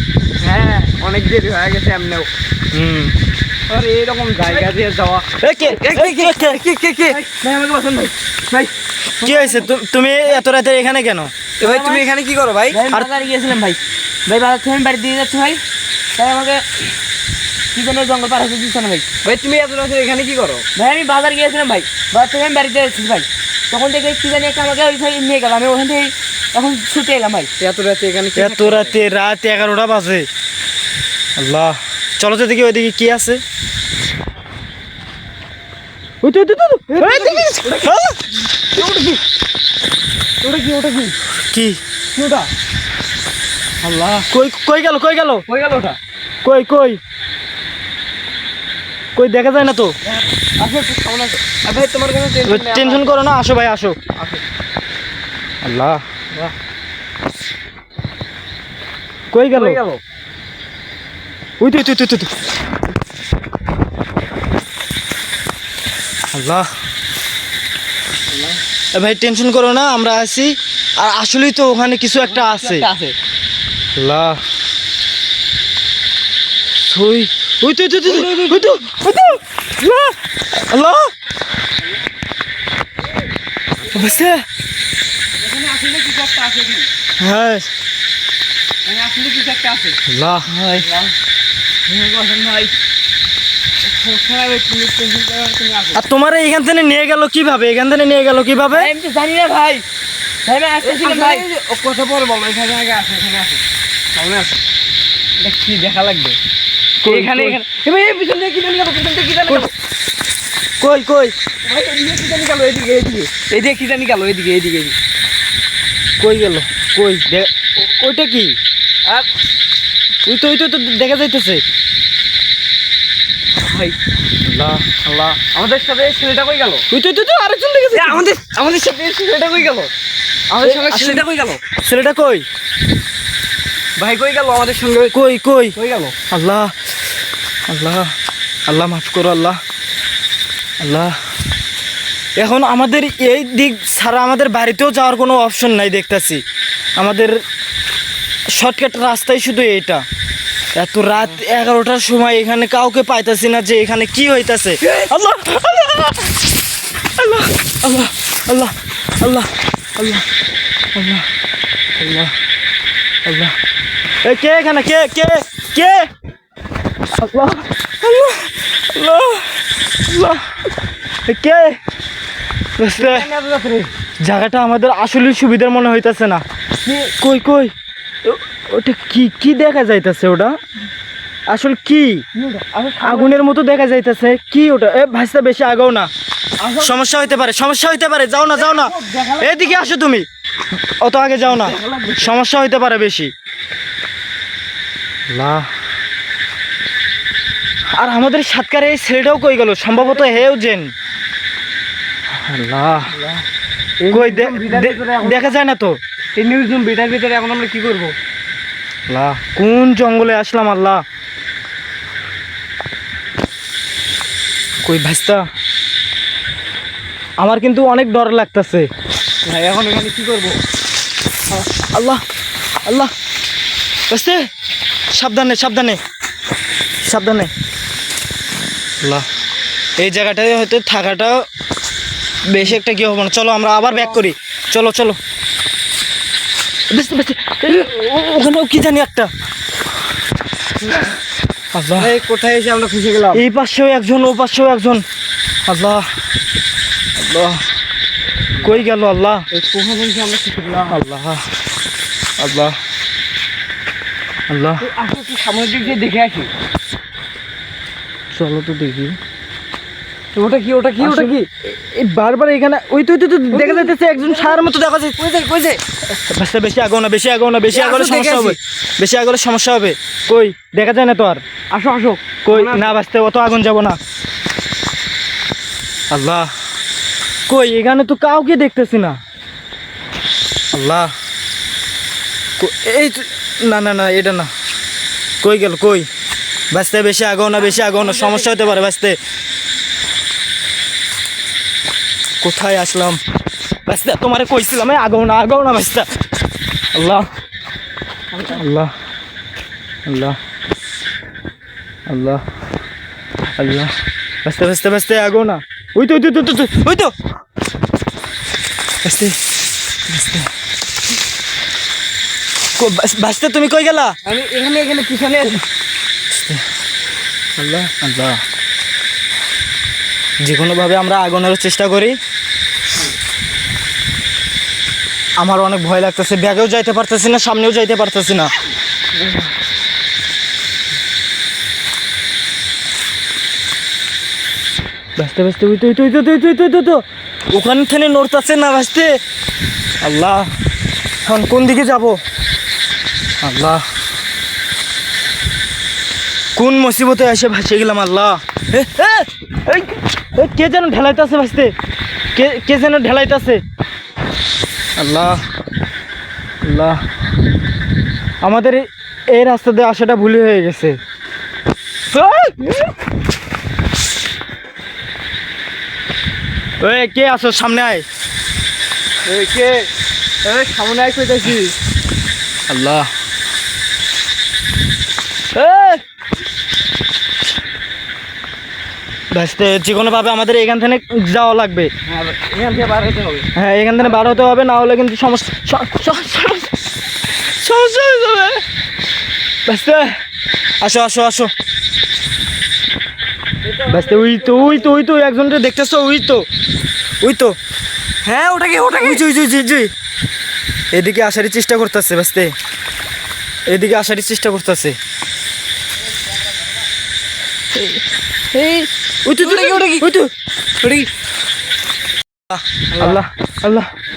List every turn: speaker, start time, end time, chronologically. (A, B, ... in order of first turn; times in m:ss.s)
0:00.4-0:02.3 A
0:02.7-0:03.1 B
0:03.7-0:08.7 A
0:05.4-0:06.6 B
0:07.1-0:08.1 C
0:09.2-0:11.3 B
0:09.2-0:09.6 A
0:11.6-0:12.8 A
0:11.6-0:12.0 C
0:12.7-0:15.6 C
0:16.2-0:16.9 C
0:17.7-0:19.1 C
0:19.2-0:20.6 A
0:20.7-0:27.5 C
0:27.6-0:29.0 A
0:28.4-0:30.3 B
0:31.4-0:33.4 B
0:36.2-0:38.2 B
0:36.9-0:37.9 A
0:38.7-0:39.2 A
0:40.4-0:41.2 A
0:41.5-0:41.8 B
0:42.2-0:42.5 A
0:43.8-0:44.3 A
0:44.3-0:45.4 B
0:45.5-0:46.0 A
0:46.4-0:47.0 B
0:49.2-0:49.9 B
0:50.6-0:53.2 A
0:52.4-0:54.0 B
0:54.2-0:54.4 A
0:55.6-0:56.0 B
0:59.3-0:59.8 B
0:59.5-1:00.0 A
1:01.6-1:02.3 B
1:06.3-1:06.7 B
1:08.9-1:12.9 B
1:12.3-1:13.1 C
1:14.0-1:14.4 B
1:16.8-1:21.1 B
1:18.1-1:18.7 A
1:23.9-1:24.4 B
1:25.4-1:26.9 A
1:27.2-1:27.7 B
1:28.8-1:30.0 A
1:30.1-1:30.5 B
1:30.7-1:31.1 A
1:31.9-1:32.7 A
1:33.8-1:36.0 A
1:35.9-1:38.9 B
1:38.7-1:39.8 C
1:40.4-1:41.5 C
1:40.8-1:43.6 A
1:44.1-1:44.6 A
1:45.4-1:46.4 A
1:47.0-1:47.6 B
1:47.0-1:49.7 A
1:50.8-1:51.3 B
1:51.6-1:55.0 A
1:56.2-1:58.6 B
2:00.2-2:01.6 B
2:03.7-2:03.9 A
2:04.4-2:05.1 B
2:05.1-2:06.8 A
2:06.9-2:08.2 B
2:07.9-2:09.9 A
2:10.5-2:11.6 A
2:10.6-2:11.2 B
2:11.8-2:12.4 B
2:14.0-2:15.2 A
2:15.1-2:15.8 B
2:15.8-2:16.1 A
2:16.3-2:16.7 B
2:17.7-2:18.1 B
2:18.7-2:19.6 B
2:20.8-2:21.2 B
2:22.4-2:26.4 B
2:27.0-2:27.4 B
2:28.5-2:30.0 B
2:30.7-2:36.3 B
2:37.2-2:40.2 B
2:40.9-2:41.2 B
2:42.0-2:42.3 B
2:43.2-2:43.5 B
2:44.2-2:46.1 B
2:47.2-2:50.4 B
2:51.3-2:51.8 B
2:52.8-2:53.3 B
2:53.0-2:53.9 A
2:54.2-2:56.4 B
2:57.2-2:57.7 B
2:58.2-3:00.6 B
3:01.5-3:02.2 B
3:02.4-3:03.3 A
3:03.0-3:06.1 B
3:06.6-3:06.9 A
3:06.7-3:10.2 B
3:08.7-3:09.7 A
3:11.0-3:13.3 B
3:11.5-3:12.3 A
3:15.3-3:15.7 B
3:18.0-3:20.9 B
3:19.9-3:20.4 A
3:22.4-3:23.1 B
3:24.0-3:25.5 A
3:24.1-3:25.9 B
3:26.3-3:28.1 A
3:29.1-3:31.0 B
3:34.8-3:35.4 B
3:37.4-3:38.9 B
3:39.4-3:40.6 A
3:41.8-3:42.2 B
3:42.8-3:43.1 B
3:44.1-3:44.4 B
3:45.1-3:46.0 B
3:47.0-3:47.5 B
3:50.0-3:51.4 B
3:52.4-3:55.2 B
3:56.9-3:59.3 B
4:01.7-4:02.1 B
4:02.0-4:03.4 A
4:03.3-4:05.0 B
4:05.7-4:06.0 B
4:07.2-4:07.6 B
4:08.6-4:09.4 B
4:09.5-4:11.0 A
4:10.9-4:11.4 B
4:12.4-4:12.8 B
4:14.5-4:14.9 B
4:14.8-4:16.5 A
4:18.3-4:19.2 B
4:20.3-4:21.5 A
4:21.0-4:25.2 B
4:23.5-4:24.6 A
4:25.2-4:25.8 A
4:26.1-4:31.4 B
4:27.7-4:28.6 A
4:31.7-4:33.0 A
4:32.4-4:34.0 B
4:36.1-4:36.5 B
4:37.5-4:39.2 B
4:40.7-4:41.1 B
4:42.6-4:44.5 B
4:45.4-4:46.1 B
4:46.7-4:49.2 B
4:47.8-4:48.7 A
4:52.4-4:53.2 B
4:53.8-4:56.1 B
4:56.9-4:57.2 B
4:58.4-4:58.9 B
5:00.0-5:00.4 B
5:02.1-5:02.4 B
5:03.6-5:03.9 B
5:04.4-5:07.1 B
5:09.0-5:09.4 B
5:10.1-5:10.5 B
5:12.8-5:14.1 B
5:14.2-5:15.6 A
5:16.3-5:16.6 B
5:17.6-5:18.4 B
5:20.4-5:22.2 B
5:25.4-5:28.5 B
5:35.2-5:39.2 B
5:40.0-5:40.5 B
5:41.2-5:42.2 B
5:43.4-5:43.8 B
5:46.6-5:51.7 B
5:52.3-5:53.6 B
5:55.0-5:55.4 B
5:56.6-5:57.0 B
5:58.4-6:01.0 B
6:02.1-6:02.8 A
6:06.8-6:08.0 B
6:09.2-6:09.9 A
6:10.4-6:11.7 A
6:12.7-6:13.1 B
6:15.5-6:16.0 B
6:19.3-6:21.9 B
6:22.1-6:23.5 A
6:23.5-6:26.7 B
6:24.0-6:24.4 A
6:27.3-6:28.6 B
6:29.6-6:30.2 B
6:30.8-6:31.5 B
6:33.8-6:34.8 A
6:33.8-6:36.4 B
6:37.2-6:37.6 B
6:38.2-6:39.9 B
6:40.9-6:42.5 B
6:43.7-6:45.0 B
6:47.7-6:48.0 B
6:48.5-6:50.3 B
6:49.4-6:50.0 A
6:50.8-6:51.1 A
6:52.5-6:53.9 B
6:52.9-6:53.2 A